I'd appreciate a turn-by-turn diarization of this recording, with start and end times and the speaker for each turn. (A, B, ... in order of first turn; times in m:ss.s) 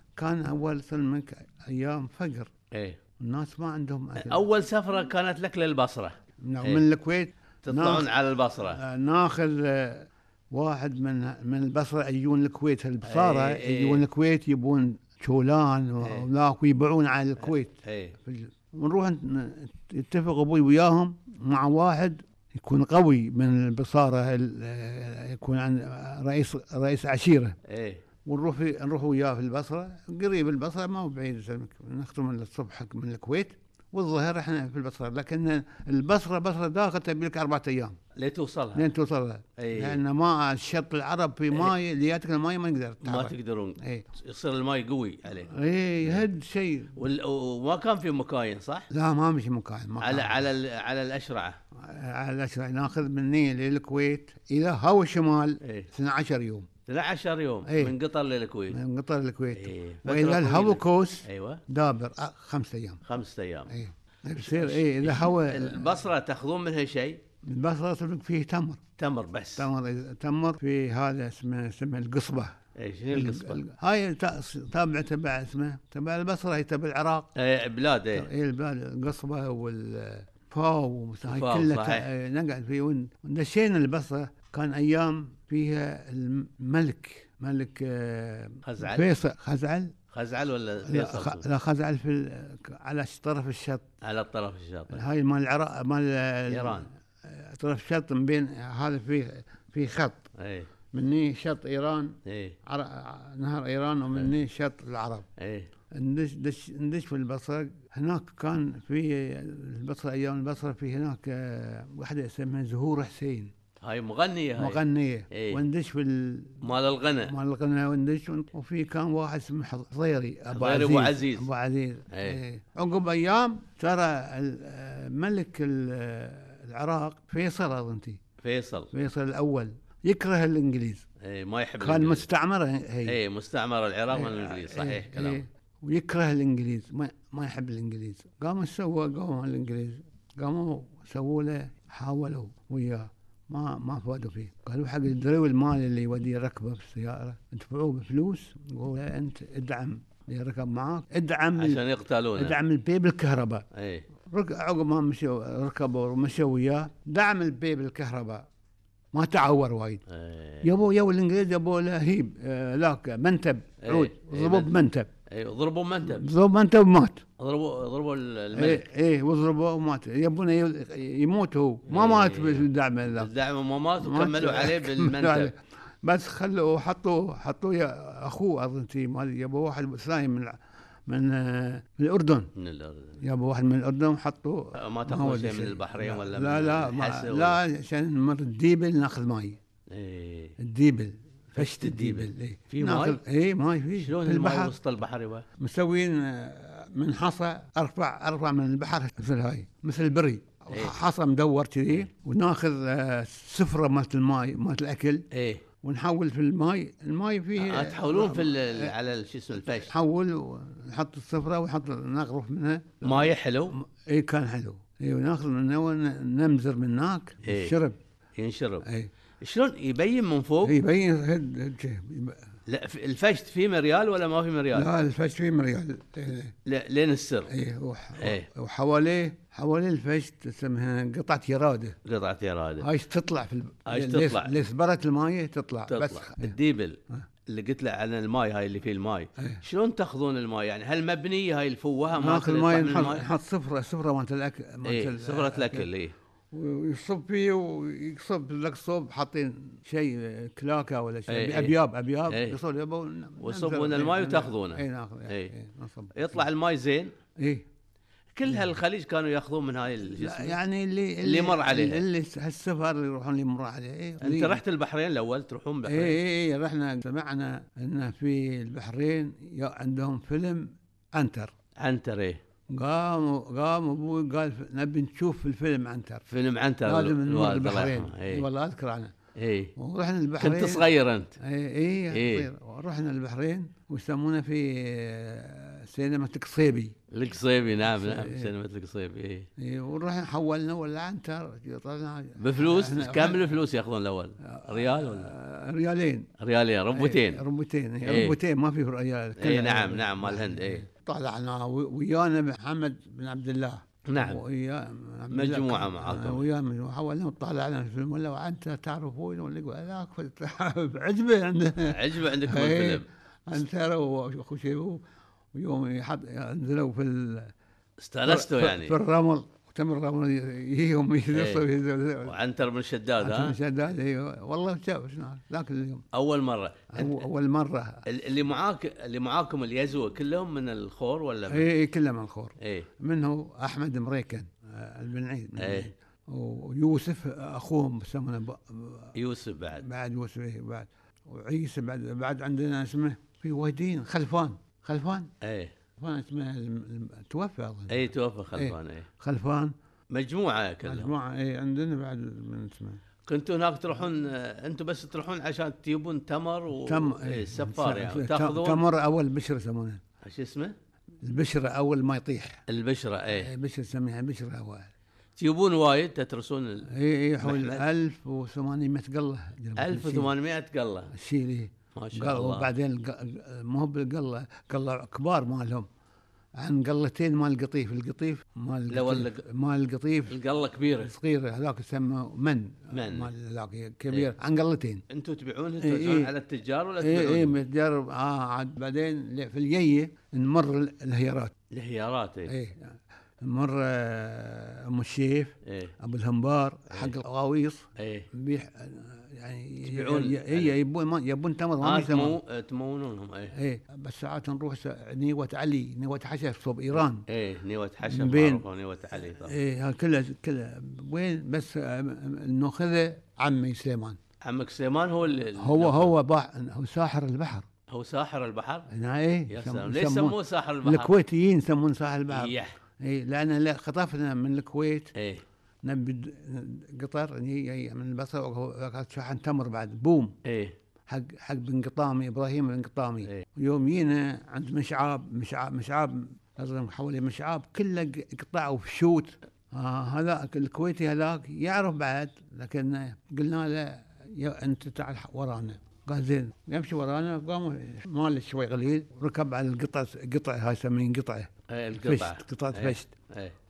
0:00.2-0:02.5 A
0:02.7-0:03.0 B
0:03.2-0:04.4 A
0:04.2-0:06.8 B
0:06.4-0:08.1 A
0:07.6-0:08.8 B
0:08.7-0:27.6 A
0:13.0-0:14.0 B
0:17.8-0:18.2 B
0:27.7-0:28.0 B
0:28.2-0:38.0 A
0:38.2-0:38.9 B
0:38.8-0:44.1 A
0:39.6-0:40.0 B
0:43.0-0:46.2 B
0:45.4-0:46.9 A
0:47.0-0:48.9 B
0:48.9-0:50.5 A
0:50.0-0:51.6 B
0:51.8-0:56.7 A
0:55.6-0:55.9 B
0:56.9-0:58.8 B
0:57.7-0:58.0 A
0:58.7-1:03.0 A
0:59.5-1:01.6 B
1:03.1-1:03.7 B
1:03.7-1:06.0 A
1:04.4-1:07.2 B
1:07.4-1:08.8 A
1:09.0-1:09.7 B
1:09.6-1:12.6 A
1:12.8-1:13.6 B
1:13.1-1:17.3 A
1:17.4-1:18.3 B
1:18.1-1:29.9 A
1:21.3-1:22.1 B
1:28.6-1:29.1 B
1:30.1-1:31.4 B
1:30.8-1:33.9 A
1:34.0-1:35.0 B
1:34.9-1:40.3 A
1:36.5-1:36.9 B
1:40.4-1:40.7 B
1:40.9-1:45.3 A
1:42.3-1:42.6 B
1:45.4-1:45.7 B
1:45.9-1:53.5 A
1:53.8-1:55.6 B
1:54.6-1:56.7 A
1:56.6-1:57.4 B
1:57.2-2:08.2 A
2:00.5-2:01.5 B
2:02.1-2:02.4 B
2:08.4-2:08.9 B
2:08.9-2:11.0 A
2:11.2-2:12.2 B
2:11.8-2:13.2 A
2:13.1-2:15.4 B
2:14.1-2:33.7 A
2:31.6-2:32.6 B
2:33.7-2:34.1 B
2:34.2-2:38.5 A
2:39.1-2:40.0 A
2:40.1-2:40.8 B
2:40.6-2:45.1 A
2:43.8-2:44.7 B
2:45.3-2:46.3 B
2:46.1-2:47.2 A
2:47.4-2:48.9 B
2:48.5-2:53.3 A
2:51.9-2:55.5 B
2:54.0-3:02.5 A
3:02.6-3:03.2 B
3:03.2-3:09.6 A
3:04.8-3:07.6 B
3:09.9-3:10.6 B
3:10.6-3:14.8 A
3:11.6-3:13.2 B
3:14.0-3:15.4 B
3:15.6-3:25.3 A
3:25.3-3:25.6 B
3:25.8-3:28.9 A
3:27.6-3:29.9 B
3:29.7-3:38.0 A
3:33.0-3:33.8 B
3:37.4-3:37.8 B
3:38.4-3:38.9 B
3:38.8-3:39.1 A
3:39.4-3:40.8 B
3:40.6-3:42.5 A
3:42.7-3:44.9 B
3:44.7-3:46.6 A
3:46.6-3:47.5 B
3:47.5-3:52.0 A
3:48.2-3:48.5 B
3:52.0-3:52.9 B
3:52.8-3:56.6 A
3:53.9-3:54.6 B
3:55.9-4:03.2 B
3:59.4-3:59.6 A
4:02.2-4:05.9 A
4:04.8-4:06.1 B
4:06.5-4:16.5 A
4:11.3-4:12.6 B
4:13.4-4:15.5 B
4:16.1-4:17.2 B
4:17.4-4:17.7 A
4:18.3-4:20.6 B
4:20.2-4:24.6 A
4:21.2-4:22.0 B
4:24.2-4:26.2 B
4:25.9-4:31.5 A
4:31.8-4:32.4 B
4:32.7-4:36.2 A
4:36.3-4:38.5 B
4:36.8-4:39.1 A
4:39.4-4:39.7 B
4:39.8-4:47.0 A
4:40.4-4:41.4 B
4:42.1-4:42.5 B
4:47.1-4:49.5 B
4:47.8-4:48.5 A
4:49.6-4:53.6 A
4:52.4-4:55.3 B
4:54.4-4:56.3 A
4:56.4-4:57.4 B
4:56.9-5:17.5 A
4:58.0-4:58.4 B
4:59.4-5:00.8 B
5:04.1-5:04.4 B
5:05.3-5:06.4 B
5:11.8-5:13.1 B
5:18.0-5:19.0 B
5:18.3-5:22.4 A
5:21.3-5:21.6 B
5:22.2-5:23.6 B
5:23.2-5:26.1 A
5:26.1-5:27.2 B
5:26.9-5:28.0 A
5:28.1-5:31.7 B
5:31.5-5:39.1 A
5:32.6-5:32.9 B
5:35.6-5:35.9 B
5:39.2-5:39.8 B
5:39.8-5:45.3 A
5:45.4-5:45.8 B
5:46.0-5:49.7 A
5:47.9-5:49.1 B
5:50.1-5:51.1 B
5:50.8-5:53.0 A
5:53.3-5:58.8 B
5:56.8-6:00.0 A
6:00.2-6:00.8 B
6:01.2-6:02.6 A
6:02.7-6:03.5 B
6:03.3-6:04.9 A
6:05.4-6:06.9 B
6:06.9-6:10.3 A
6:07.4-6:07.8 B
6:09.8-6:11.1 B
6:11.1-6:15.9 A
6:11.9-6:12.7 B
6:16.6-6:20.4 A
6:18.9-6:19.4 B
6:20.3-6:21.1 B
6:21.0-6:25.0 A
6:22.9-6:23.3 B
6:25.1-6:27.6 B
6:25.8-6:26.3 A
6:27.0-6:31.5 A
6:31.7-6:32.6 B
6:32.5-6:42.4 A
6:35.6-6:35.9 B
6:38.0-6:38.3 B
6:39.8-6:40.8 B
6:41.8-6:43.5 B
6:43.5-6:47.2 A
6:46.9-6:49.6 B
6:48.0-6:48.6 A
6:49.2-6:54.2 A
6:54.4-6:56.1 B
6:55.6-6:57.7 A
6:57.9-6:58.9 B
6:58.9-7:05.1 A
6:59.5-7:01.1 B
7:02.3-7:02.8 B
7:05.2-7:05.4 B
7:05.8-7:10.4 A
7:10.4-7:10.8 B
7:11.1-7:33.1 A
7:31.7-7:33.6 B